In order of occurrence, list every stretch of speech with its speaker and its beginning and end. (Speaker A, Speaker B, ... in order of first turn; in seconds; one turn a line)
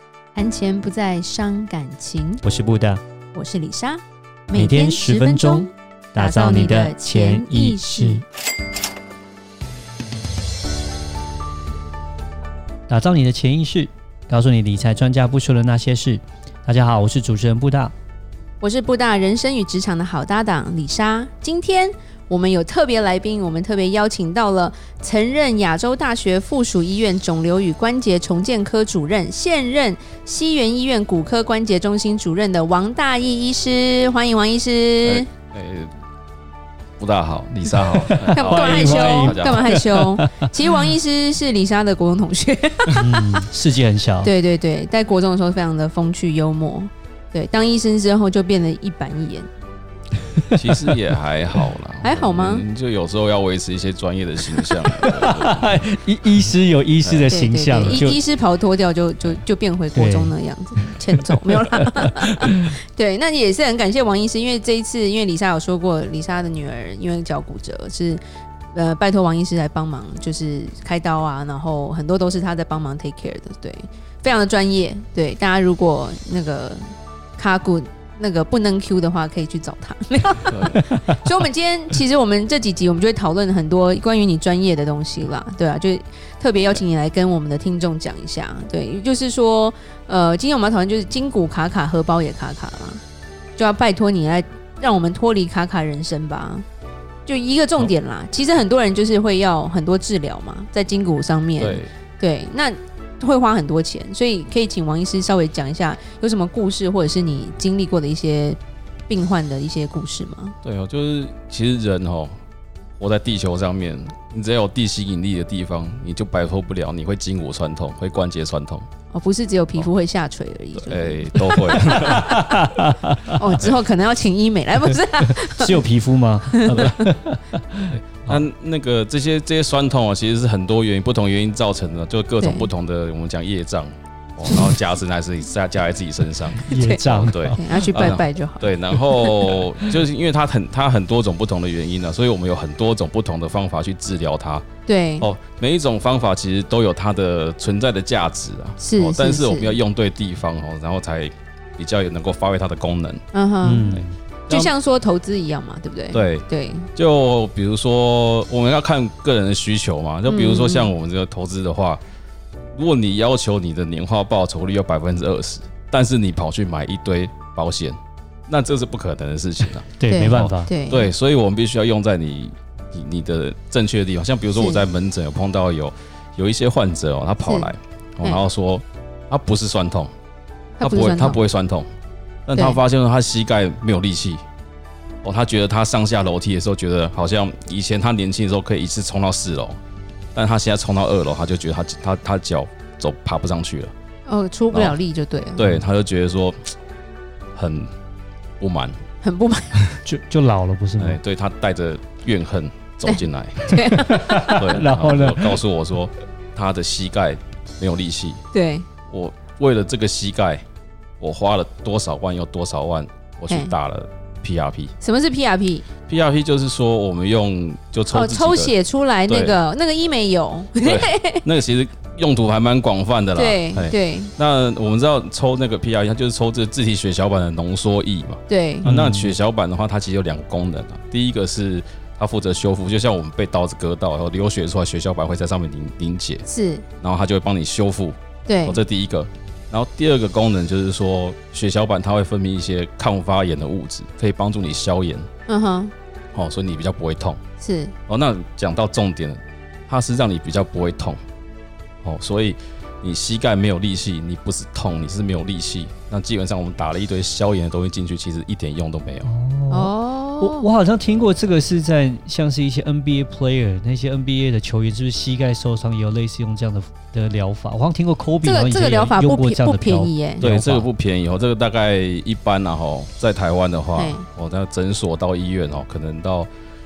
Speaker A: 0.3-2.4
Speaker B: 2.4-3.0
Speaker A: 3.3-8.2
Speaker B: 4.5-8.2
Speaker B: 12.9-17.9
Speaker A: 18.6-35.3
Speaker C: 35.0-35.9
Speaker C: 37.0-39.8
Speaker B: 37.8-40.5
Speaker A: 38.3-43.5
Speaker B: 42.9-44.3
Speaker A: 44.2-49.5
Speaker C: 50.5-55.8
Speaker A: 52.0-52.7
Speaker B: 54.7-58.2
Speaker C: 57.0-58.0
Speaker A: 57.3-68.2
Speaker B: 59.9-60.3
Speaker B: 61.5-61.9
Speaker A: 68.7-76.8
Speaker A: 77.4-93.0
Speaker C: 80.5-80.8
Speaker B: 80.8-81.2
Speaker A: 93.6-96.7
Speaker A: 97.3-108.6
Speaker C: 101.6-101.9
Speaker A: 109.1-110.5
Speaker C: 110.6-112.4
Speaker C: 113.0-118.9
Speaker A: 119.1-122.1
Speaker C: 120.8-122.5
Speaker B: 121.5-123.4
Speaker A: 123.3-125.8
Speaker B: 125.2-128.4
Speaker A: 126.5-127.1
Speaker C: 128.2-144.7
Speaker A: 132.4-132.7
Speaker B: 136.6-137.8
Speaker A: 136.7-139.6
Speaker A: 144.9-145.3
Speaker C: 145.2-153.2
Speaker A: 148.8-149.8
Speaker A: 153.3-156.9
Speaker B: 153.6-154.2
Speaker C: 153.9-154.7
Speaker C: 156.1-162.0
Speaker A: 160.3-160.9
Speaker C: 162.8-180.1
Speaker B: 170.0-170.7
Speaker A: 170.1-171.1
Speaker A: 174.5-174.9
Speaker A: 177.4-178.4
Speaker A: 180.8-181.4
Speaker C: 180.8-181.9
Speaker C: 182.5-184.4
Speaker C: 185.2-189.8
Speaker C: 190.3-193.9
Speaker A: 194.3-195.8
Speaker C: 194.7-195.0
Speaker C: 195.6-196.7
Speaker C: 197.6-197.9
Speaker C: 198.6-199.0
Speaker A: 199.2-200.0
Speaker B: 200.1-201.2
Speaker C: 201.0-208.4
Speaker A: 203.1-204.4
Speaker B: 203.9-205.6
Speaker A: 208.5-208.9
Speaker C: 209.1-210.6
Speaker C: 211.2-214.9
Speaker A: 213.5-213.7
Speaker A: 215.0-215.9
Speaker C: 216.1-218.7
Speaker A: 218.1-221.4
Speaker C: 219.3-219.6
Speaker C: 220.8-236.5
Speaker A: 223.4-224.3
Speaker A: 228.5-228.9
Speaker B: 228.8-229.3
Speaker A: 236.5-236.8
Speaker C: 237.0-245.3
Speaker A: 238.5-238.8
Speaker A: 245.5-245.9
Speaker C: 246.3-247.4
Speaker A: 247.6-247.9
Speaker C: 248.1-251.2
Speaker C: 252.0-259.3
Speaker B: 259.2-270.9
Speaker A: 259.7-260.7
Speaker A: 268.4-270.4
Speaker C: 270.4-276.5
Speaker A: 274.0-274.2